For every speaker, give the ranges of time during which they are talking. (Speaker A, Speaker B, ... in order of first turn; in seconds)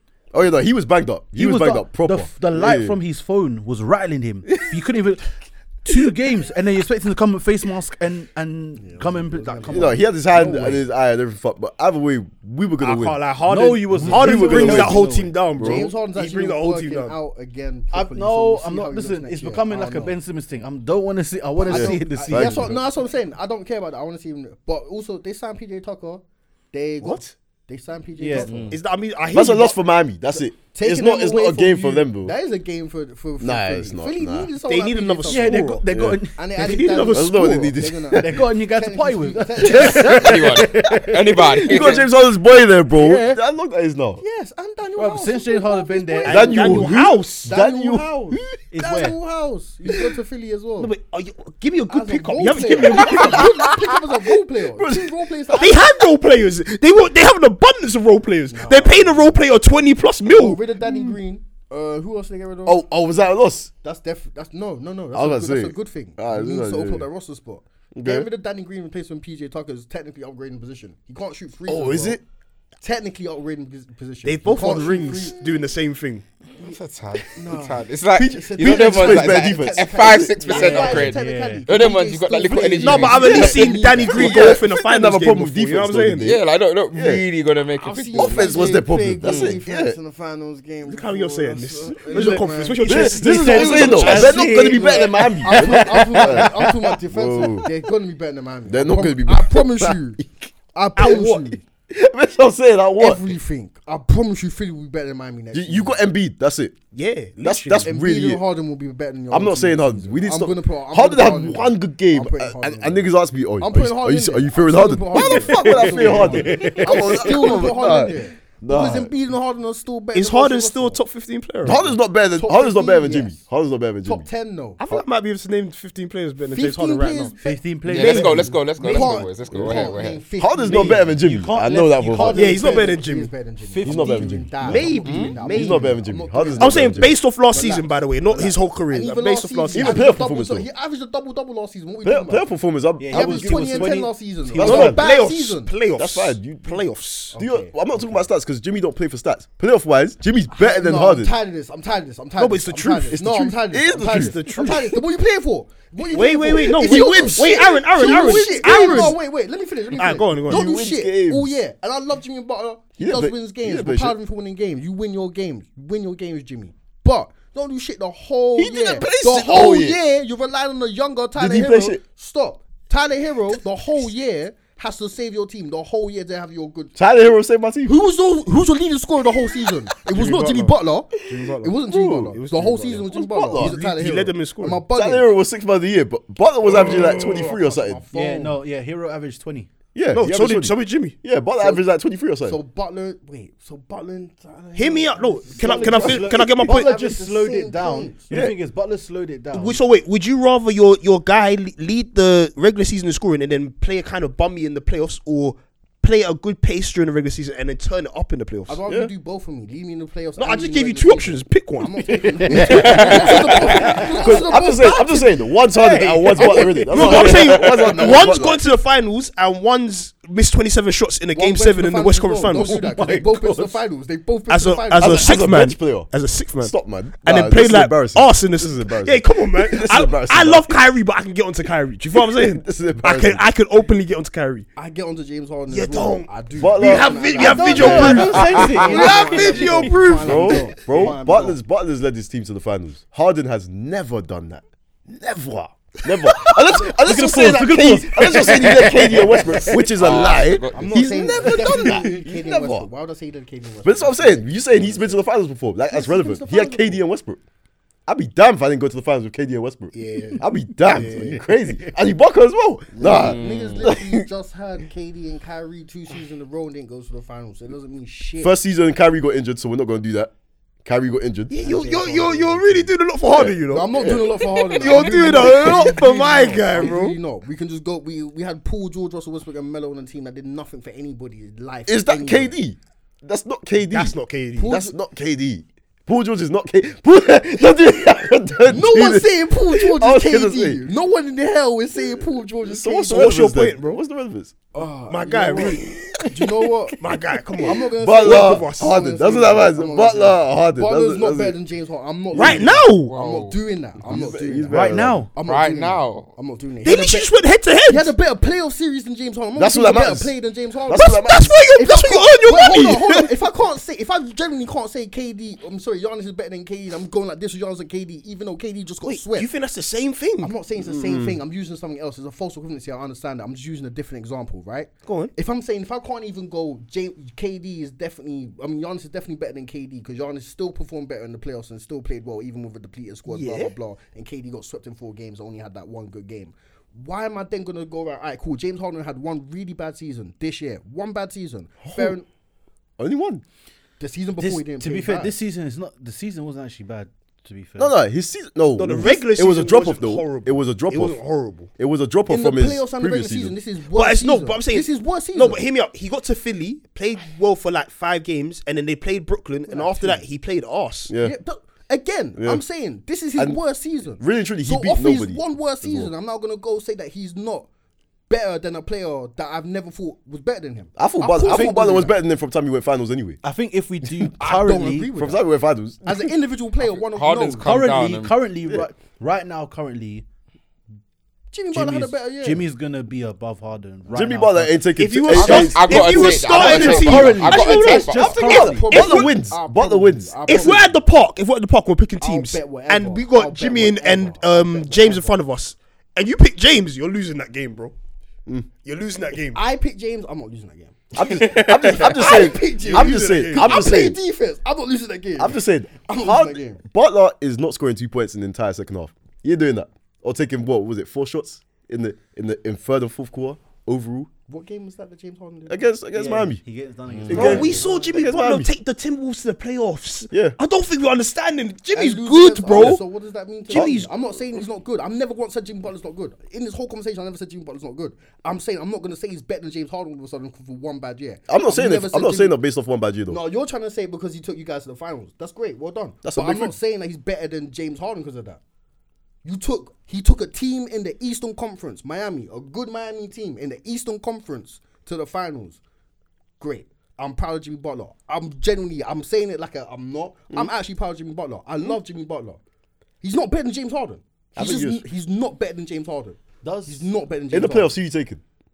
Speaker A: 0.3-3.0, 9.7-13.2, 13.9-15.0, 15.6-15.9, 21.7-22.7, 29.3-32.3, 33.4-34.5, 35.9-36.2, 36.7-38.5, 41.4-44.2, 46.2-48.6, 53.0-53.7, 54.7-55.8, 60.8-61.2, 62.6-63.7, 65.1-67.1, 67.9-68.3, 71.9-72.2, 78.1-80.4, 83.2-87.2, 88.1-90.0, 92.8-97.7, 98.7-103.4, 105.5-106.8, 107.4-108.4, 109.3-119.1, 121.6-124.3, 129.5-132.6, 133.8-137.1, 139.7-140.7, 142.0-145.0, 145.9-146.8, 147.3-151.3, 153.1-154.8, 156.7-159.1, 160.5-161.6, 163.0-164.2, 168.6-170.0, 171.3-172.0, 176.9-177.9, 181.9-182.3, 183.1-183.8, 184.9-188.0, 189.9-192.6, 198.3-198.5, 208.9-209.1, 212.5-218.6, 225.0-230.8, 232.3-233.4, 236.6-238.3, 240.2-252.9, 253.8-257.4, 258.1-264.3, 268.4-270.3, 270.8-271.5, 273.3-275.9, 281.9-290.8, 292.1-294.5, 295.5-296.6, 297.6-301.6, 302.3-302.7, 304.0-305.3, 309.5-310.3, 310.9-311.5, 320.8-321.4, 341.8-342.1, 343.0-343.4, 347.8-351.2, 351.8-353.5, 361.1-361.4, 362.4-362.6, 363.4-363.6, 364.2-366.1, 370.9-373.4, 375.1-376.3, 384.1-390.9, 401.1-404.2, 405.4-414.3, 415.7-416.6, 417.2-418.7, 420.3-420.6, 422.7-423.0, 423.7-424.0, 431.5-433.4, 436.2-436.7, 454.6-455.0, 457.5-458.4
Speaker B: 1.3-10.0, 13.4-15.3, 17.9-22.8, 28.2-28.5, 35.3-37.1, 38.1-41.8, 42.9-43.4, 45.0-46.6, 48.7-49.2, 80.5-81.6, 92.1-96.7, 115.3-117.6, 127.4-128.6, 131.1-132.9, 133.6-134.6, 143.0-145.0, 188.1-189.7, 195.6-199.8, 212.1-213.2, 213.8-215.1, 215.6-217.3, 222.5-223.8, 237.4-239.9, 246.7-249.9, 304.7-305.3, 344.4-347.9, 371.4-371.8, 373.4-375.1, 377.6-380.2, 381.7-384.8, 386.7-388.9, 416.1-417.9, 456.6-457.1
Speaker C: 8.8-10.8, 15.6-20.2, 21.6-28.8, 30.3-35.7, 36.3-40.5, 44.2-50.9, 51.9-55.9, 58.5-59.4, 60.2-62.8, 63.8-72.2, 72.8-75.5, 76.6-84.6, 87.8-100.2, 100.7-101.6, 103.0-106.0, 107.8-121.0, 122.3-123.4, 124.0-124.8, 126.5-131.1, 132.2-142.5, 143.1-145.7, 147.3-148.2, 150.5-177.0, 177.8-185.3, 186.7-188.6, 191.6-191.8, 192.4-198.3, 208.7-215.3, 216.4-218.1, 221.3-225.4, 234.8-241.6, 250.7-255.2, 255.9-257.0, 263.0-268.5, 271.6-272.9, 273.7-282.6, 284.6-284.9, 288.7-293.4, 294.7-297.0, 297.6-307.3, 307.9-319.5, 320.4-342.3, 344.0-345.4, 352.3-355.6, 359.7-360.2, 361.2-367.7, 368.3-372.2, 374.4-375.5, 376.0-377.7, 381.5-382.6, 386.3-391.0, 392.2-395.4, 399.5-406.8, 414.5-415.9, 417.3-418.4, 421.9-432.6, 433.3-438.6, 439.4-445.8, 446.6-452.6, 453.2-457.9
Speaker D: 12.8-17.2, 27.0-27.3, 28.7-29.8, 34.6-35.8, 36.6-37.5, 46.2-47.5, 50.8-53.5, 55.5-60.6, 71.7-72.2, 74.2-76.2, 82.8-86.3, 90.8-94.3, 101.0-101.4, 106.9-107.9, 120.1-121.8, 124.8-127.3, 128.0-128.3, 132.3-133.3, 134.6-135.9, 136.6-140.1, 144.6-147.3, 152.4-153.2, 153.9-155.0, 156.1-159.2, 159.9-160.7, 180.1-181.8, 182.3-184.8, 186.7-187.5, 190.1-191.2, 194.7-196.9, 199.5-208.8, 210.4-212.2, 216.6-222.8, 224.5-234.7, 235.7-240.9, 259.9-261.4, 271.5-277.2, 283.9-284.8, 293.1-294.0, 295.1-295.8, 297.0-299.0, 302.3-303.1, 306.8-308.1, 310.9-313.3, 319.0-320.5, 325.1-325.3, 333.3-333.7, 348.8-351.7, 353.9-361.1, 384.9-389.5, 390.5-397.9, 398.8-399.6, 402.1-404.0, 417.3-423.0, 423.7-424.1
Speaker E: 28.3-28.8, 39.8-42.1, 76.6-83.8, 86.2-88.7, 89.2-89.6, 127.8-130.3, 135.0-135.4, 212.6-213.9, 238.4-238.7, 249.9-251.1, 263.1-263.9, 303.1-303.6, 305.4-306.3, 376.8-378.4, 385.3-388.5, 401.2-402.1